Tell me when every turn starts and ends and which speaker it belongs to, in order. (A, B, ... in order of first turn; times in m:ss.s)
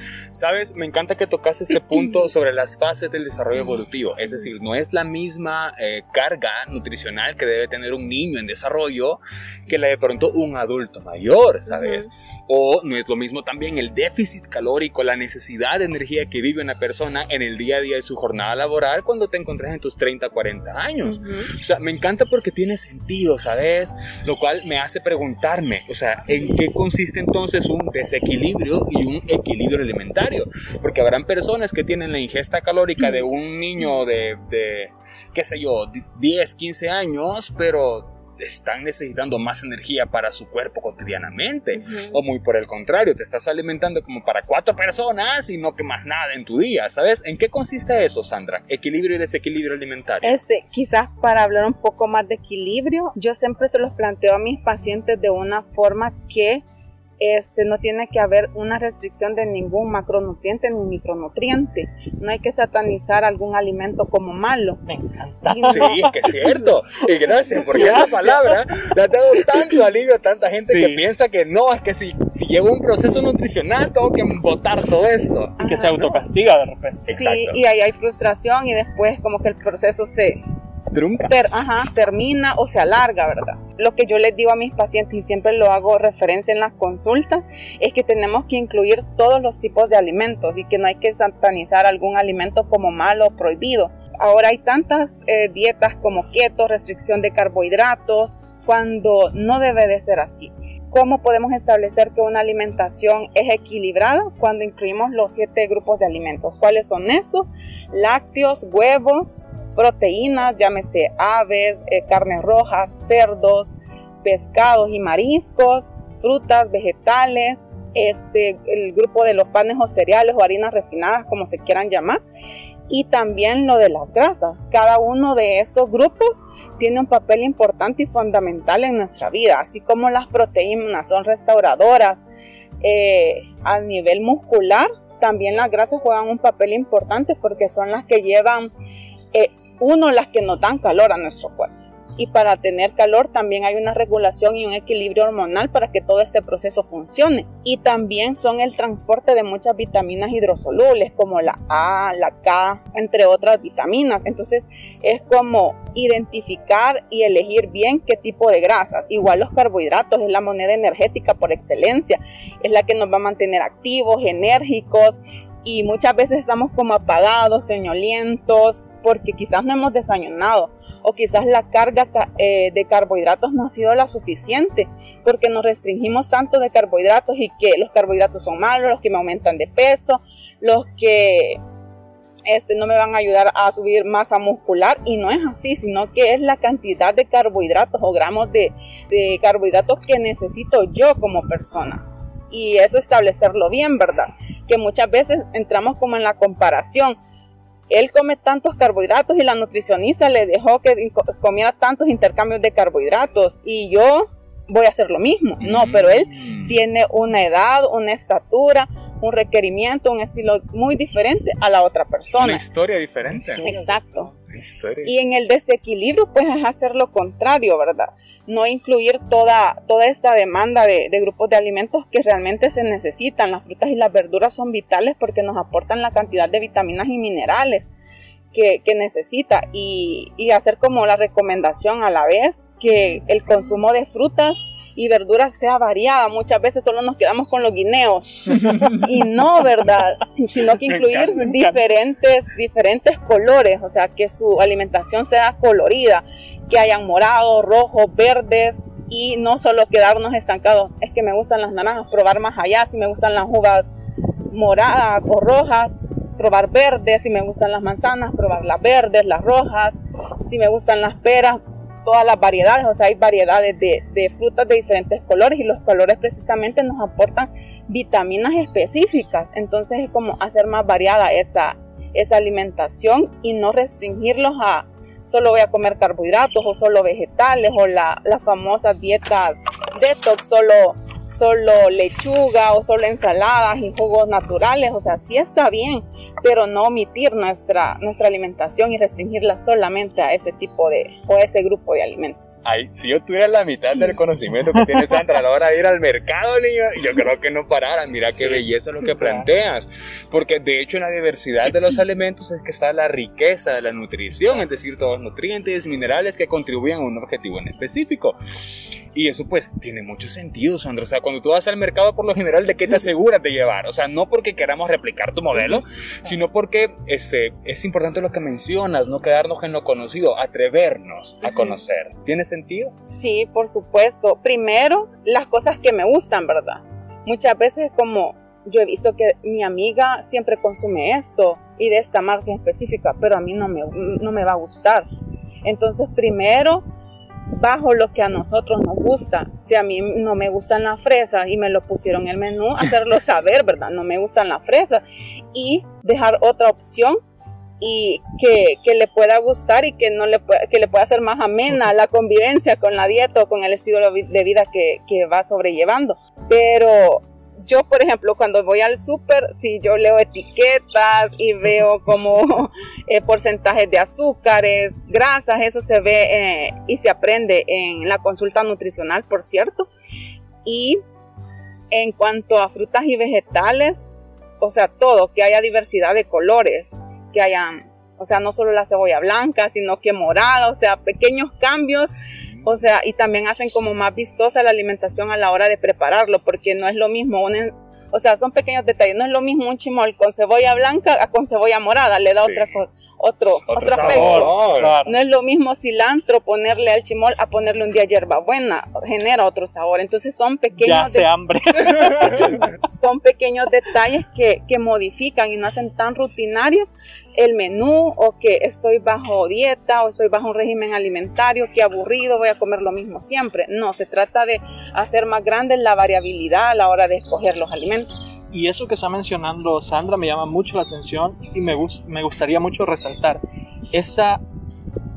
0:00.3-0:50.4 A
0:21.1-0:21.4 B
0:41.7-0:42.2 B
0:50.2-0:56.6 B
0:57.2-1:04.8 B
1:04.8-1:06.5 C
1:05.4-1:06.0 B
1:05.7-1:15.6 A
1:07.7-1:08.4 C
1:07.8-1:08.3 B
1:10.6-1:11.0 C
1:15.6-1:17.1 C
1:15.6-1:16.1 B
1:17.0-1:17.6 A
1:17.1-1:20.4 B
1:20.9-1:21.3 A
1:21.2-2:02.2 B
2:02.9-2:12.2 B
2:12.8-2:18.7 B
2:19.3-3:01.6 B
3:02.5-3:17.2 B
3:17.9-3:32.6 B
3:25.6-3:26.8 A
3:32.4-3:33.7 A
3:33.4-3:34.2 C
3:33.6-3:34.3 B
3:34.5-3:35.1 A
3:35.0-3:47.8 B
3:48.5-4:13.9 B
4:00.9-4:01.4 A
4:01.4-4:01.8 C
4:14.5-4:52.6 B
4:52.6-5:22.9 A
4:58.3-4:59.5 C
5:23.1-5:35.0 B
5:35.6-5:36.8 B
5:37.5-5:47.2 B
5:47.8-6:09.9 B
6:10.6-6:11.0 B
6:11.9-6:14.1 B
6:14.6-6:41.3 B
6:22.2-6:22.7 A
6:32.3-6:32.7 A
6:33.7-6:35.0 A
6:33.9-6:35.1 C
6:40.8-6:42.6 C
6:42.1-6:58.2 B
6:58.5-7:03.4 C
7:03.9-7:04.4 C